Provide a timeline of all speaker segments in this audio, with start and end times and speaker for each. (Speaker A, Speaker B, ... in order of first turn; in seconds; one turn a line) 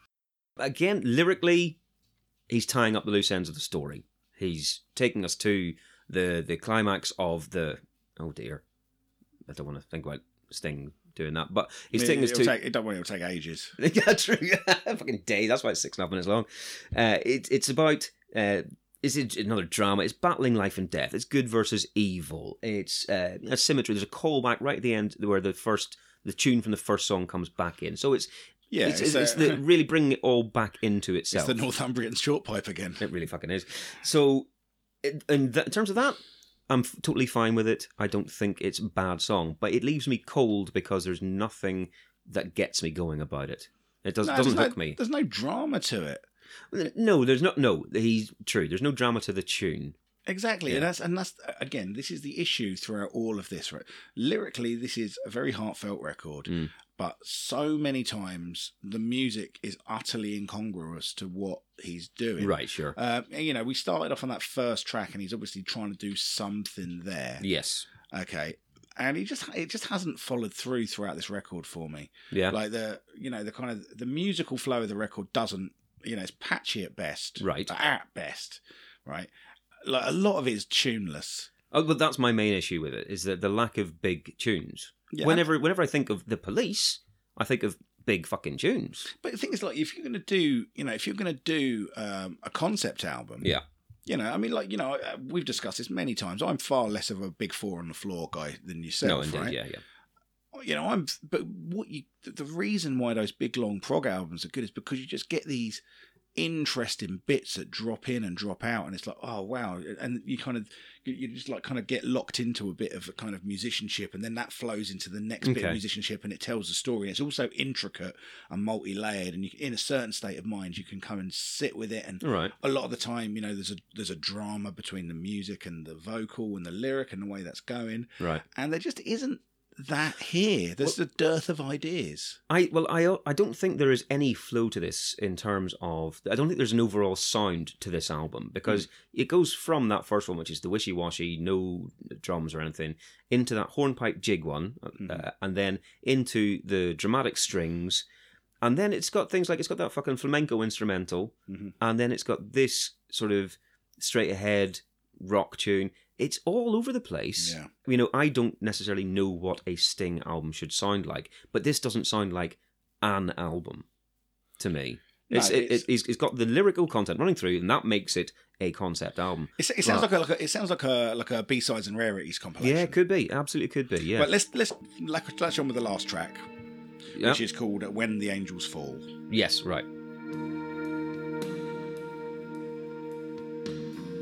Speaker A: 0.6-1.8
Speaker A: 2.5-8.6
Speaker A: 9.5-12.5
Speaker B: 11.9-13.7
Speaker A: 13.8-28.3
Speaker B: 28.7-29.6
Speaker A: 28.8-31.6
Speaker B: 31.3-33.0
Speaker A: 33.0-34.5
Speaker A: 35.0-45.0
Speaker B: 44.2-46.2
Speaker A: 46.7-50.0
Speaker B: 50.2-67.4
Speaker A: 62.4-63.0
Speaker A: 67.4-67.9
Speaker B: 68.0-79.3
Speaker A: 72.3-72.6
Speaker A: 77.4-77.7
Speaker B: 79.8-81.5
Speaker A: 81.7-89.1
Speaker B: 85.1-85.4
Speaker B: 89.1-93.5
Speaker B: 94.0-99.6
Speaker A: 99.0-99.8
Speaker B: 100.5-105.8
Speaker B: 106.3-132.4
Speaker A: 115.4-115.8
Speaker A: 122.2-122.5
Speaker A: 132.5-148.1
Speaker A: 148.6-163.8
Speaker B: 157.4-157.7
Speaker A: 164.6-170.1
Speaker B: 165.3-165.9
Speaker B: 169.6-172.9
Speaker A: 172.6-174.3
Speaker B: 174.1-176.4
Speaker A: 177.1-177.4
Speaker B: 177.2-179.1
Speaker A: 179.3-179.8